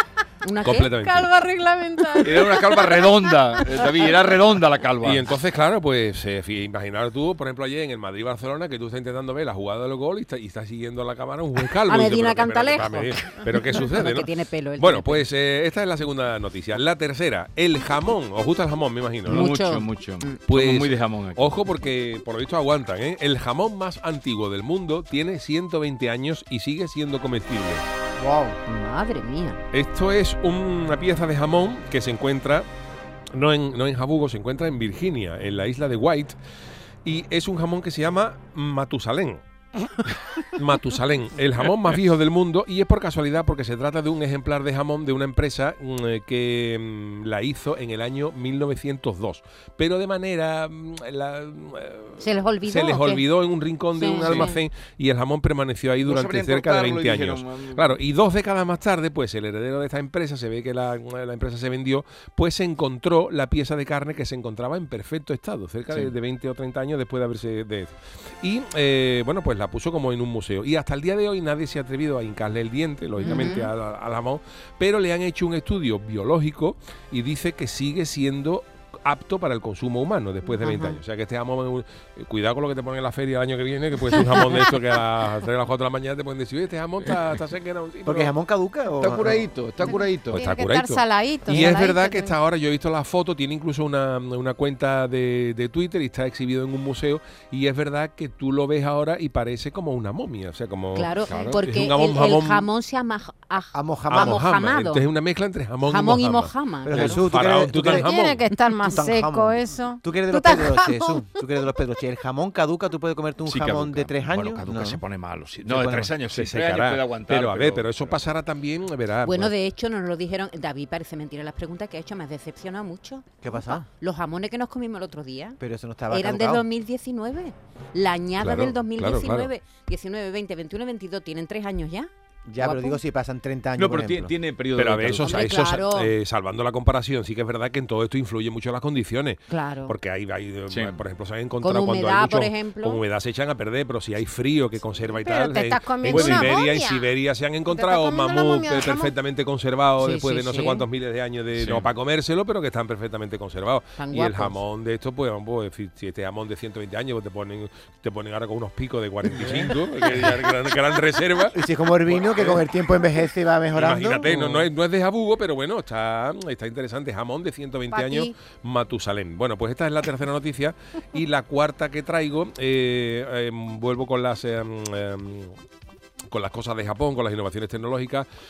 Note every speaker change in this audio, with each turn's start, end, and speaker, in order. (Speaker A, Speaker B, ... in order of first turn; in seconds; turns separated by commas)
Speaker A: 0.4-0.9, Speaker B: 0.6-1.3, Speaker C: 0.7-3.9, Speaker D: 2.2-5.3, Speaker B: 5.0-19.5, Speaker A: 11.9-15.3, Speaker D: 19.3-21.6, Speaker A: 19.3-20.4, Speaker B: 20.4-27.9, Speaker E: 28.2-28.6, Speaker A: 28.7-29.6, Speaker B: 29.7-32.7, Speaker B: 33.3-36.4, Speaker B: 37.0-39.4, Speaker B: 40.3-88.3, Speaker A: 52.2-53.3, Speaker A: 54.0-54.6, Speaker D: 54.2-54.5, Speaker D: 56.0-57.9, Speaker A: 73.2-73.7, Speaker A: 80.6-81.0, Speaker E: 88.1-89.4, Speaker D: 89.0-90.4, Speaker C: 89.8-92.4, Speaker B: 90.3-102.7, Speaker A: 100.9-105.1, Speaker D: 101.3-101.6, Speaker E: 103.7-104.5, Speaker B: 104.1-106.5, Speaker A: 105.9-107.2, Speaker E: 106.8-108.1, Speaker D: 106.9-107.2, Speaker B: 107.2-108.4, Speaker C: 107.9-111.4, Speaker E: 108.8-115.0, Speaker D: 113.5-118.2, Speaker E: 115.7-116.1, Speaker B: 116.3-119.5, Speaker A: 119.2-133.0, Speaker E: 123.4-123.9, Speaker E: 125.6-126.7, Speaker B: 128.4-129.5, Speaker E: 132.5-134.3, Speaker D: 133.8-135.7, Speaker B: 134.8-162.7, Speaker A: 135.2-136.1, Speaker A: 139.5-140.0, Speaker D: 140.7-141.0, Speaker A: 141.6-143.0, Speaker C: 145.2-147.1, Speaker C: 147.7-149.1, Speaker A: 150.0-150.9, Speaker D: 151.6-151.9, Speaker A: 154.0-154.6, Speaker E: 159.3-159.7, Speaker E: 161.5-164.7, Speaker B: 163.7-175.6, Speaker C: 167.9-168.4, Speaker B: 176.3-178.3